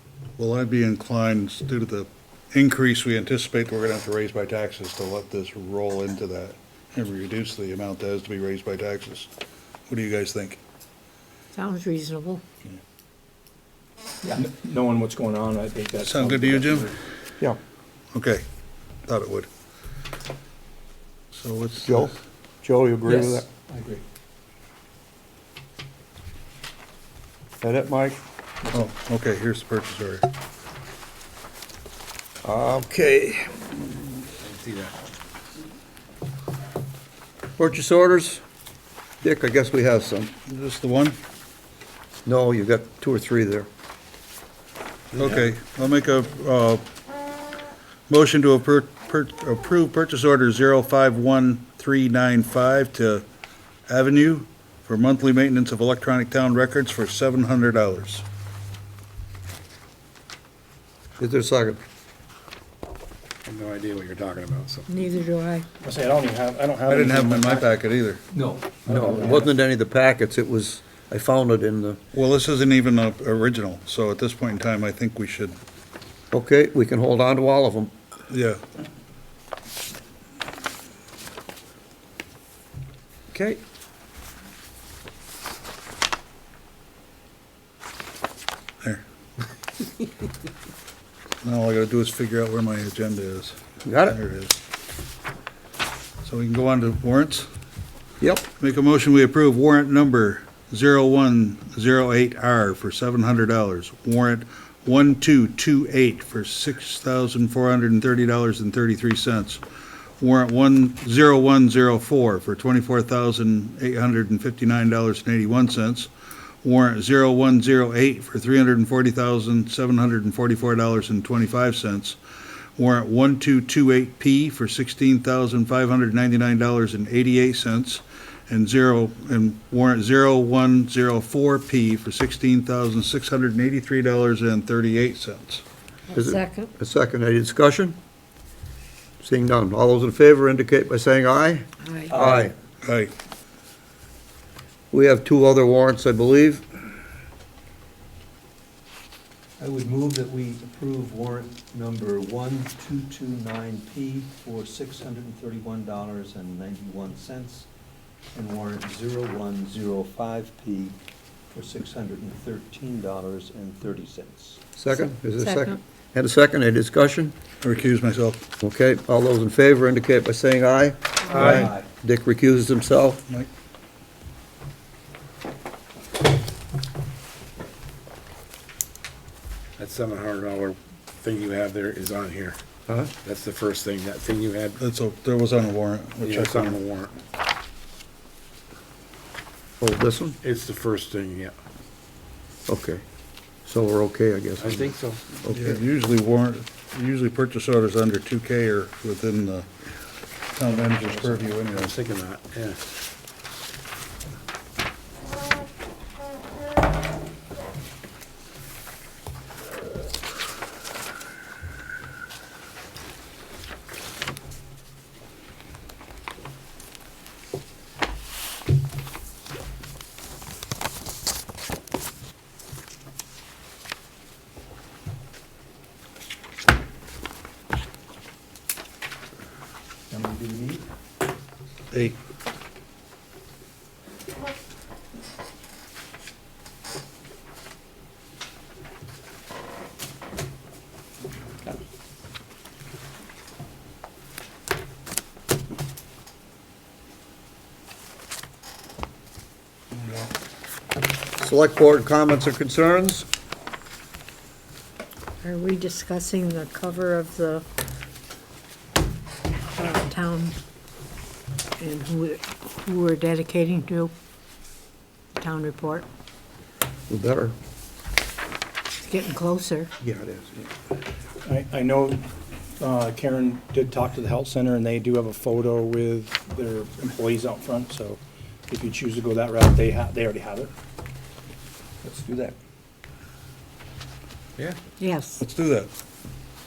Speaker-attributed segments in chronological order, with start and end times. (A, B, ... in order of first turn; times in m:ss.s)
0:00.4-0:09.3 A
0:09.9-0:10.6 A
0:11.5-0:12.4 B
0:14.4-0:17.0 C
0:16.0-0:16.9 A
0:18.1-0:18.4 A
0:19.1-0:19.5 A
0:21.3-0:22.2 A
0:21.8-0:23.5 D
0:23.1-0:24.0 E
0:27.6-0:28.2 D
0:28.7-0:30.3 A
0:32.4-0:34.2 D
0:34.4-0:34.9 F
0:37.6-0:38.4 D
0:39.2-0:40.3 D
0:40.5-0:41.2 A
0:42.2-0:43.7 D
0:45.1-0:45.5 F
0:45.2-0:46.8 A
0:48.1-0:53.2 A
0:53.9-0:58.2 A
1:01.2-1:01.8 D
1:03.4-1:05.1 F
1:04.9-1:05.7 B
1:05.8-1:07.7 C
1:06.9-1:08.2 A
1:08.7-1:09.5 C
1:08.9-1:12.0 D
1:12.1-1:15.6 A
1:16.3-1:17.9 D
1:18.3-1:18.6 A
1:31.4-1:34.6 A
1:33.8-1:34.2 D
1:36.2-1:37.5 A
1:38.2-1:38.5 D
1:38.6-1:49.6 A
1:50.2-1:56.1 A
1:56.6-2:02.2 A
2:02.8-2:15.6 A
2:16.1-2:16.7 B
2:16.2-2:18.0 D
2:19.2-2:22.5 D
2:21.8-2:22.2 B
2:22.1-2:22.5 E
2:22.8-2:23.1 A
2:24.9-2:26.7 D
2:29.6-2:37.7 E
2:38.3-2:41.0 E
2:41.5-2:44.6 E
2:44.8-2:47.4 D
2:44.9-2:45.8 B
2:47.6-2:48.4 A
2:48.6-2:53.2 D
2:51.3-2:51.7 A
2:51.3-2:51.8 E
2:59.8-3:02.6 F
3:02.9-3:03.1 D
3:03.2-3:04.8 F
3:04.8-3:06.8 A
3:06.2-3:07.1 F
3:09.8-3:10.4 D
3:10.4-3:11.6 F
3:12.7-3:13.0 D
3:13.6-3:14.9 D
3:14.6-3:15.4 F
3:15.4-3:15.8 D
3:15.5-3:19.7 A
3:20.6-3:22.0 A
3:20.8-3:22.8 F
3:50.1-3:50.9 E
4:11.4-4:13.3 D
4:15.4-4:17.6 B
4:19.8-4:20.6 B
4:21.8-4:24.1 B
4:25.4-4:26.0 B
4:27.1-4:27.6 D
4:29.0-4:29.9 B
4:30.0-4:30.7 D
4:31.4-4:32.2 C
4:32.8-4:40.7 C
4:45.0-4:45.4 B
4:45.4-4:45.9 A